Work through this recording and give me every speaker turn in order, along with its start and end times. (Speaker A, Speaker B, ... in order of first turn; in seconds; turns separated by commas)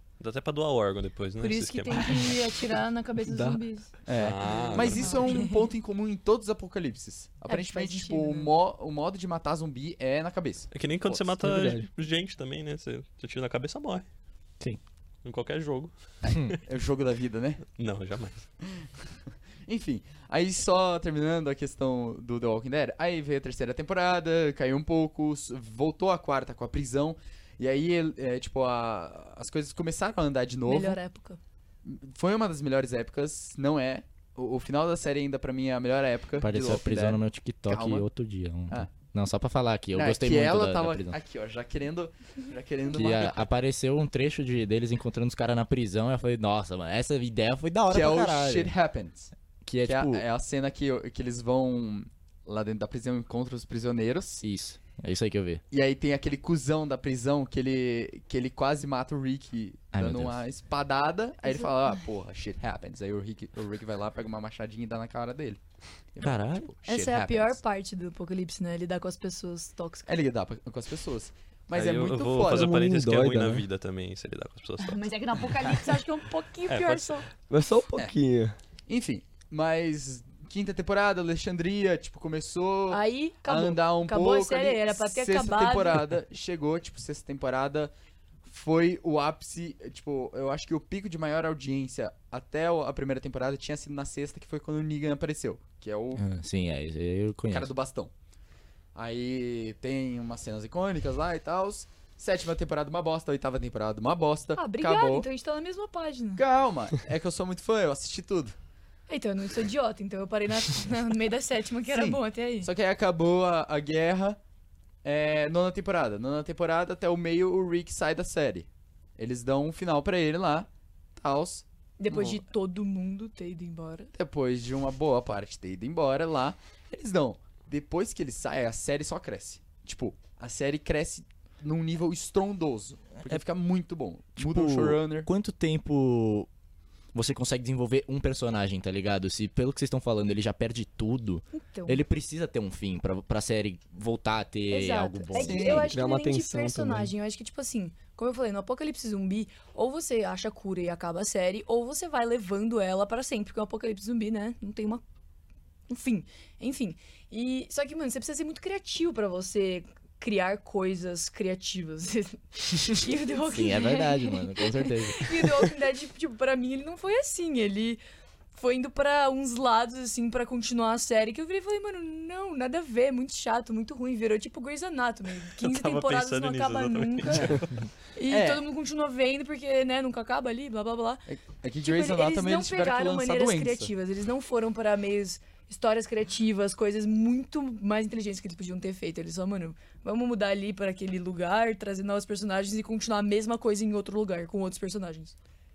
Speaker A: 0.2-2.4, Speaker B: 1.4-5.7, Speaker C: 3.2-3.6, Speaker D: 4.0-11.2, Speaker A: 4.1-5.5, Speaker B: 7.5-8.5, Speaker A: 10.7-14.1, Speaker C: 11.4-11.9, Speaker A: 15.2-16.2, Speaker D: 16.2-17.6, Speaker A: 17.8-18.5, Speaker D: 19.7-31.0, Speaker B: 30.7-31.4, Speaker D: 31.8-38.1, Speaker E: 36.4-41.2, Speaker D: 39.9-43.5, Speaker E: 42.9-48.7, Speaker D: 47.9-49.3, Speaker E: 49.6-50.2, Speaker D: 49.8-54.4, Speaker E: 54.4-55.6, Speaker D: 55.7-65.6, Speaker E: 59.9-60.4, Speaker B: 61.4-61.7, Speaker D: 66.1-67.6, Speaker E: 66.2-66.7, Speaker B: 66.8-70.1, Speaker D: 70.1-72.8, Speaker A: 71.7-76.0, Speaker C: 72.5-73.6, Speaker B: 74.8-77.3, Speaker A: 76.7-77.2, Speaker C: 77.5-78.6, Speaker D: 78.9-87.9, Speaker B: 82.9-86.1, Speaker D: 88.4-96.2, Speaker E: 96.2-97.7, Speaker D: 97.5-98.1, Speaker D: 99.0-105.3, Speaker B: 104.5-106.4, Speaker D: 106.4-108.5, Speaker B: 109.1-112.7, Speaker D: 111.9-114.4, Speaker D: 115.0-122.4, Speaker B: 122.0-124.1, Speaker D: 124.1-135.3, Speaker E: 134.4-136.5, Speaker E: 137.1-145.9, Speaker B: 141.6-142.0, Speaker B: 144.7-155.0, Speaker D: 145.3-145.9, Speaker C: 145.9-147.1, Speaker B: 155.9-168.0, Speaker E: 163.4-165.5, Speaker B: 168.5-177.6, Speaker A: 175.6-177.7, Speaker B: 178.2-181.3, Speaker D: 178.3-178.6, Speaker D: 181.3-183.9, Speaker B: 181.8-195.3